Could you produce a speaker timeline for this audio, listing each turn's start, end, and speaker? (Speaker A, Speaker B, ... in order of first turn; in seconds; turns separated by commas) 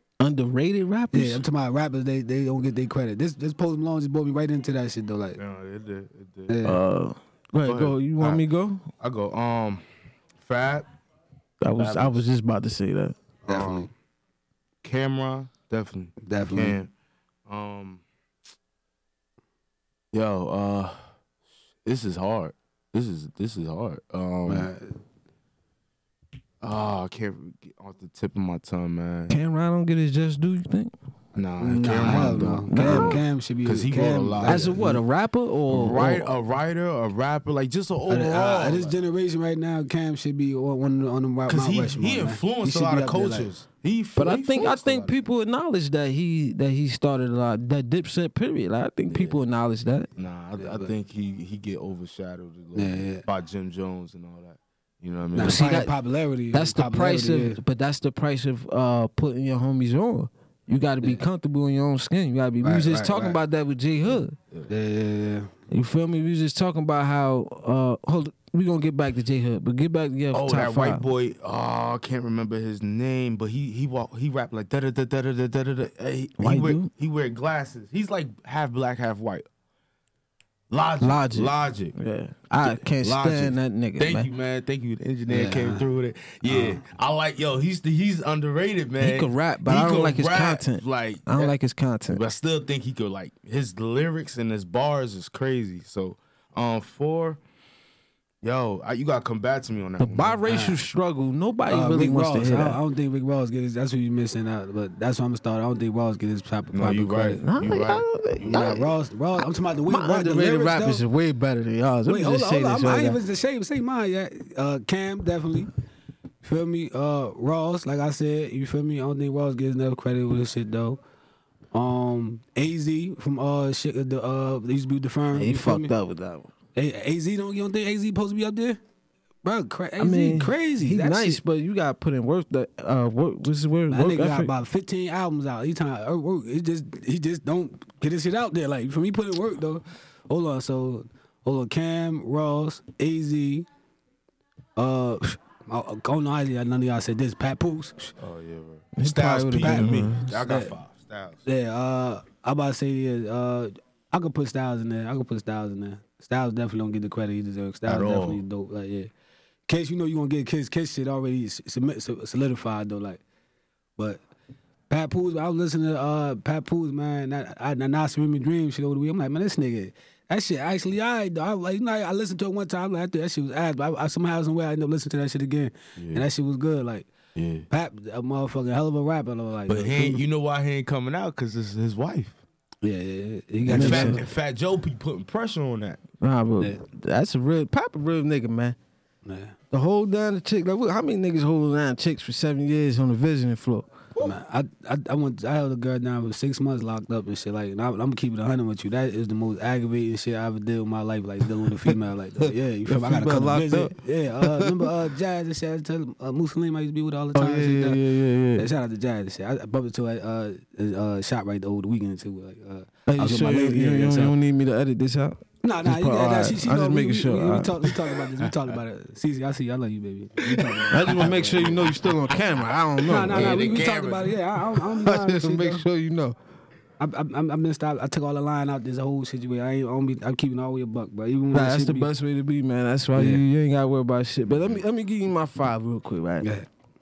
Speaker A: 0.2-1.4, Speaker B: 1.1-5.4, Speaker C: 5.4-6.6, Speaker B: 6.5-6.8, Speaker A: 6.7-8.9, Speaker C: 7.7-8.4, Speaker C: 9.0-9.8, Speaker C: 10.4-10.9, Speaker A: 11.6-13.2, Speaker C: 11.8-12.2, Speaker B: 13.5-13.9, Speaker C: 13.5-13.9, Speaker C: 14.8-16.9, Speaker B: 16.2-16.8, Speaker C: 17.5-18.0, Speaker C: 20.1-21.0, Speaker C: 21.8-24.7, Speaker B: 24.5-25.0, Speaker C: 26.6-29.4, Speaker A: 29.3-30.9, Speaker C: 31.4-34.8, Speaker B: 31.6-35.0, Speaker A: 32.7-33.2, Speaker A: 34.4-36.3, Speaker C: 35.7-39.0, Speaker B: 38.1-43.5, Speaker C: 41.5-45.1, Speaker A: 44.2-50.1, Speaker C: 49.1-49.4, Speaker C: 50.2-55.7, Speaker B: 50.6-50.9, Speaker B: 52.8-53.2, Speaker B: 55.4-57.6, Speaker A: 55.4-55.9, Speaker A: 56.5-64.4, Speaker B: 62.6-63.4, Speaker B: 64.7-65.5, Speaker A: 65.7-71.1, Speaker C: 70.3-79.5, Speaker A: 76.4-76.9, Speaker C: 80.7-82.0, Speaker A: 81.0-84.3, Speaker C: 82.6-91.5, Speaker B: 85.3-85.8, Speaker B: 86.5-86.8, Speaker A: 89.0-92.2, Speaker C: 92.1-97.4, Speaker C: 98.4-100.4, Speaker A: 100.0-102.8, Speaker B: 100.5-100.8, Speaker B: 101.7-107.4, Speaker C: 106.7-108.8, Speaker A: 107.4-108.9, Speaker B: 108.5-111.0, Speaker A: 109.9-113.2, Speaker B: 112.1-115.7, Speaker B: 116.4-121.0, Speaker B: 121.7-125.9, Speaker A: 125.3-126.5, Speaker B: 126.8-128.8, Speaker B: 129.4-131.4, Speaker A: 130.0-134.5, Speaker B: 133.9-143.7, Speaker B: 144.8-148.1, Speaker C: 148.2-151.4, Speaker A: 149.0-150.4, Speaker B: 149.6-149.9, Speaker B: 150.5-150.7, Speaker B: 151.5-159.1, Speaker C: 157.9-158.4, Speaker B: 159.7-163.2, Speaker B: 164.0-164.2, Speaker B: 164.9-177.1, Speaker C: 176.0-176.2, Speaker C: 177.4-177.7, Speaker B: 177.7-180.2, Speaker C: 179.7-182.4, Speaker B: 182.8-184.2, Speaker C: 183.7-186.0, Speaker A: 183.7-184.2, Speaker A: 186.2-188.8, Speaker B: 189.2-189.6, Speaker A: 189.7-193.9, Speaker B: 194.2-208.0, Speaker A: 202.9-204.8, Speaker A: 207.3-208.7, Speaker B: 208.6-214.3, Speaker A: 213.1-217.9, Speaker B: 215.6-221.8, Speaker C: 220.5-222.2, Speaker A: 220.9-223.8, Speaker B: 223.0-225.8, Speaker C: 223.1-224.6, Speaker A: 224.9-226.4, Speaker B: 227.0-232.1, Speaker A: 231.5-236.5, Speaker B: 233.2-233.4, Speaker B: 236.4-236.7